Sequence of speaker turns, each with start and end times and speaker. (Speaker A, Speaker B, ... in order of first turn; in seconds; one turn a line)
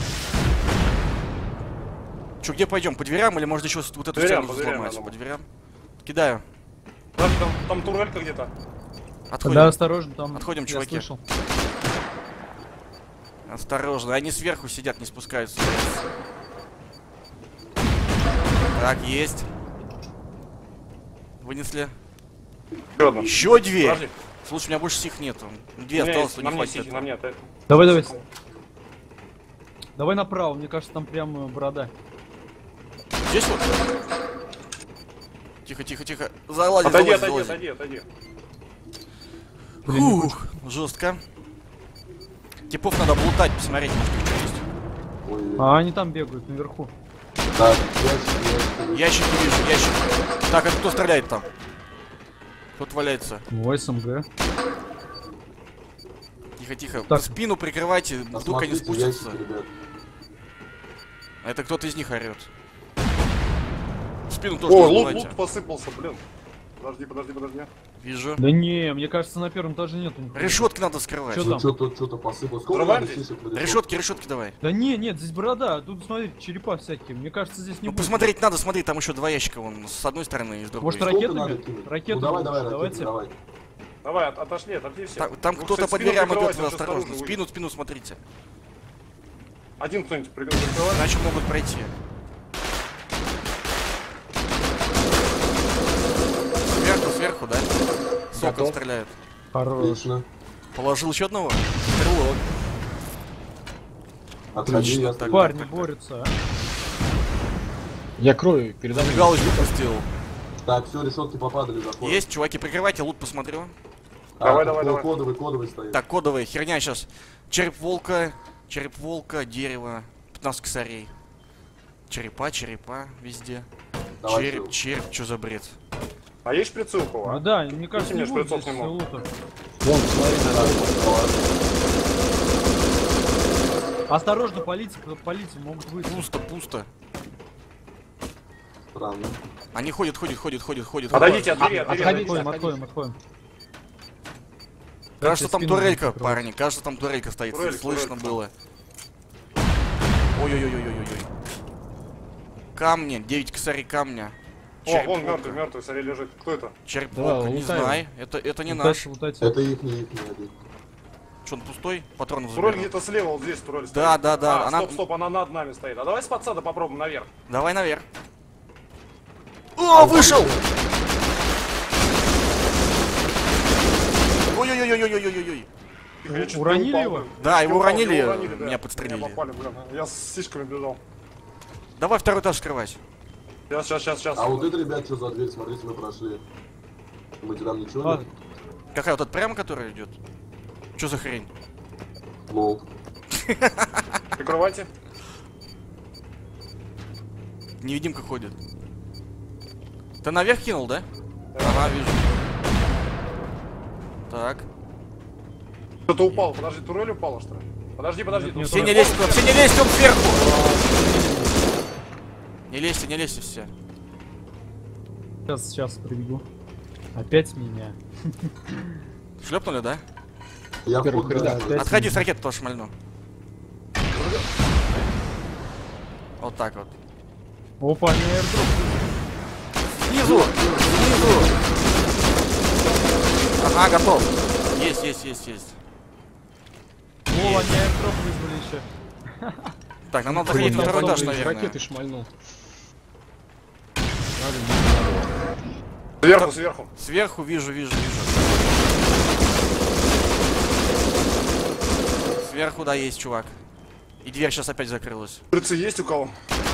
Speaker A: 2.4-5.5
Speaker B: 4.1-5.1
Speaker A: 6.0-6.4
Speaker B: 7.2-8.5
Speaker A: 9.3-9.8
Speaker C: 9.4-11.2
Speaker A: 10.3-11.1
Speaker A: 13.5-16.0
Speaker A: 18.7-19.4
Speaker A: 21.4-21.9
Speaker B: 23.0-24.1
Speaker A: 23.2-27.1
Speaker B: 25.9-27.4
Speaker C: 27.7-28.2
Speaker C: 30.0-31.9
Speaker A: 33.2-33.7
Speaker A: 35.6-37.6
Speaker B: 36.8-38.0
Speaker A: 39.8-41.2
Speaker C: 39.9-40.4
Speaker A: 42.7-44.6
Speaker D: 45.2-45.7
Speaker C: 45.6-46.9
Speaker D: 47.5-49.1
Speaker A: 48.9-51.5
Speaker A: 52.8-53.5
Speaker C: 53.5-54.2
Speaker A: 56.6-59.4
Speaker C: 57.1-57.4
Speaker D: 58.3-59.7
Speaker A: 61.4-62.5
Speaker A: 64.3-65.4
Speaker B: 64.7-66.2
Speaker B: 66.8-67.7
Speaker A: 68.0-68.4
Speaker C: 68.4-70.7
Speaker A: 70.3-71.5
Speaker C: 71.3-71.7
Speaker D: 71.4-73.9
Speaker B: 72.7-73.2
Speaker A: 73.5-74.5
Speaker C: 74.6-78.3
Speaker A: 77.8-81.1
Speaker C: 80.8-83.1
Speaker D: 81.0-83.3
Speaker B: 84.0-87.4
Speaker A: 85.2-88.2
Speaker B: 89.8-91.1
Speaker A: 90.9-91.9
Speaker A: 96.6-97.7
Speaker A: 98.3-99.1
Speaker E: 98.3-98.8
Speaker C: 99.5-100.0
Speaker D: 99.8-100.2
Speaker A: 100.7-102.4
Speaker D: 104.5-105.6
Speaker E: 104.7-105.0
Speaker A: 104.7-105.9
Speaker C: 105.2-106.3
Speaker E: 108.2-109.7
Speaker A: 108.9-110.1
Speaker D: 110.6-112.2
Speaker A: 112.0-113.7
Speaker D: 114.4-116.0
Speaker B: 114.4-115.1
Speaker A: 115.9-121.1
Speaker A: 122.1-123.7
Speaker D: 124.2-124.8
Speaker A: 124.2-125.8
Speaker B: 126.5-128.9
Speaker C: 127.2-129.3
Speaker E: 129.8-131.0
Speaker D: 130.5-131.4
Speaker C: 134.1-136.3
Speaker A: 136.0-136.9
Speaker D: 138.9-139.4
Speaker A: 139.7-142.0
Speaker B: 141.1-142.5
Speaker E: 141.1-142.8
Speaker C: 141.9-143.2
Speaker C: 145.2-146.4
Speaker A: 145.2-148.5
Speaker B: 147.5-148.4
Speaker A: 150.3-151.3
Speaker A: 152.8-155.6
Speaker B: 154.9-156.7
Speaker A: 156.9-159.1
Speaker E: 157.1-158.0
Speaker C: 158.7-159.6
Speaker D: 159.4-160.5
Speaker A: 161.4-162.9
Speaker B: 162.5-167.3
Speaker A: 163.9-165.0
Speaker A: 167.5-168.1
Speaker A: 169.8-170.5
Speaker D: 169.9-170.8
Speaker A: 174.5-175.7
Speaker B: 176.2-181.0
Speaker C: 176.3-177.3
Speaker A: 177.4-179.4
Speaker A: 182.0-183.0
Speaker B: 183.7-184.7
Speaker D: 184.3-186.4
Speaker D: 187.4-188.3
Speaker A: 188.9-190.1
Speaker A: 191.0-191.5
Speaker D: 192.5-192.9
Speaker A: 193.3-194.2
Speaker B: 194.4-194.9
Speaker A: 197.8-198.6
Speaker A: 200.2-201.0
Speaker B: 201.5-202.0
Speaker A: 201.6-202.4
Speaker A: 204.3-204.7
Speaker B: 206.1-209.7
Speaker C: 208.3-209.1
Speaker A: 208.6-210.5
Speaker E: 210.3-211.5
Speaker A: 212.7-213.7
Speaker C: 215.5-216.4
Speaker C: 217.1-219.0
Speaker A: 219.4-220.0
Speaker D: 220.8-221.9
Speaker E: 221.0-222.1
Speaker C: 221.3-222.2
Speaker A: 221.7-222.9
Speaker A: 226.4-226.9
Speaker C: 227.8-229.1
Speaker A: 230.0-231.5
Speaker D: 230.2-231.5
Speaker A: 233.6-235.8
Speaker C: 237.3-239.7
Speaker A: 237.3-237.7
Speaker A: 240.1-241.8
Speaker E: 240.3-242.3
Speaker C: 240.3-241.5
Speaker E: 244.3-245.3
Speaker B: 246.2-246.9
Speaker A: 246.3-248.4
Speaker A: 252.4-253.6
Speaker A: 254.2-255.4
Speaker B: 255.5-256.3